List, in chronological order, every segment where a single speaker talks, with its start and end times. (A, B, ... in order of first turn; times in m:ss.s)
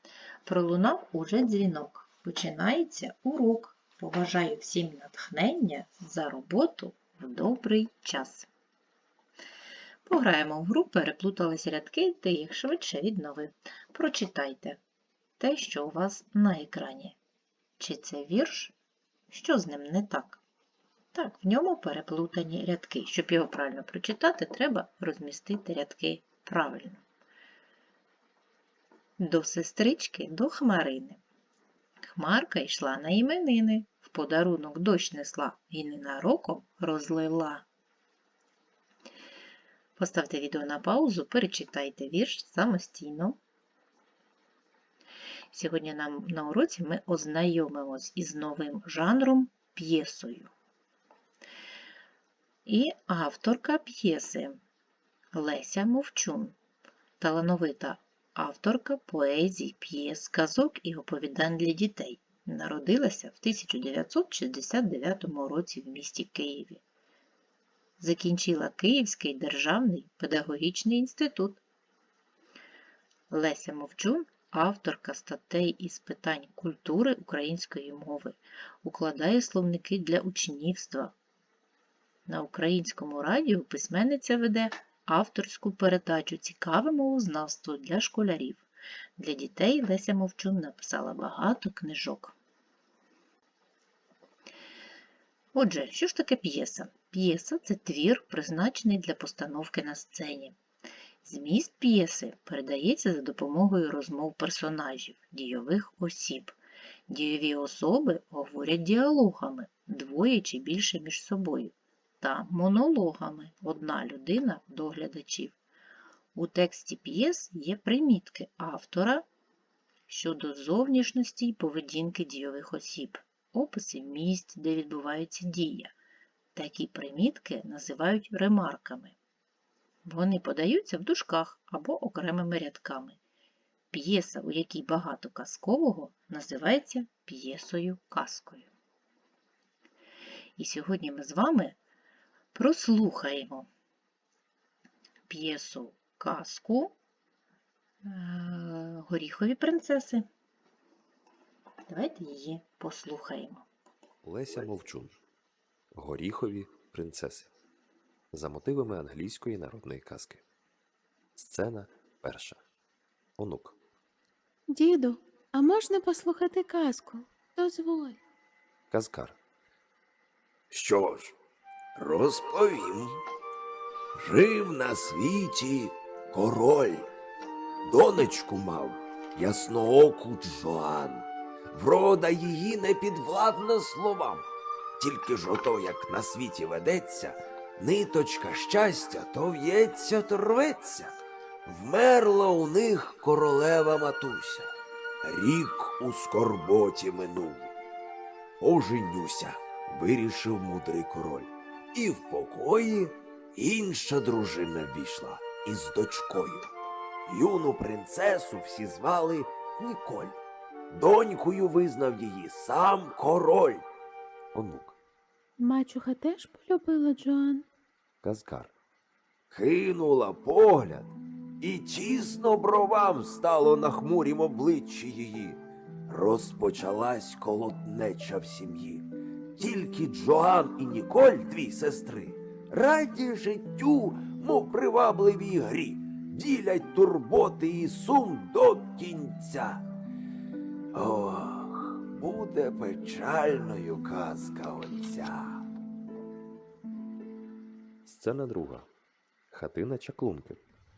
0:00.4-0:08.5 A
0:10.0-0:14.8 A
0:15.4-0:17.2 A
0:17.8-0:18.7 A
0:19.3-0:20.4 A
0:21.1-0:27.0 A
0:29.2-0:31.2 A
0:32.1-0:37.6 A
0:40.0-0:43.4 A
0:45.5-0:50.5 A
0:52.6-0:54.6 A
0:55.3-0:56.5 A
0:57.2-1:06.8 A
1:08.0-1:11.6 A
1:13.3-1:21.1 A
1:22.3-1:28.6 A
1:29.2-1:32.3 A
1:35.5-1:40.6 A
1:41.2-1:46.5 A
1:47.1-1:55.6 A
1:56.4-1:59.2 A
2:00.1-2:05.9 A
2:06.5-2:09.2 A
2:10.0-2:13.2 A
2:13.9-2:18.7 A
2:20.6-2:21.8 A
2:22.5-2:23.7 A
2:25.3-2:26.9 A
2:28.0-2:30.3 A
2:31.9-2:33.6 A
2:34.2-2:35.2 B
2:35.9-2:37.5 B
2:38.3-2:40.4 B
2:41.4-2:42.6 B
2:43.4-2:43.8 B
2:44.7-2:48.2 C
2:48.9-2:49.4 B
2:50.7-2:51.3 D
2:52.0-2:53.2 D
2:54.2-2:57.1 D
2:57.8-3:04.4 D
3:05.0-3:11.1 D
3:11.6-3:14.7 D
3:15.2-3:17.7 D
3:18.6-3:26.7 D
3:27.2-3:30.4 D
3:30.9-3:33.8 D
3:34.5-3:35.0 B
3:35.6-3:37.6 C
3:38.2-3:38.7 B
3:39.5-3:59.8 D
4:00.9-4:05.6 D
4:08.0-4:08.9 B
4:09.5-4:10.6 B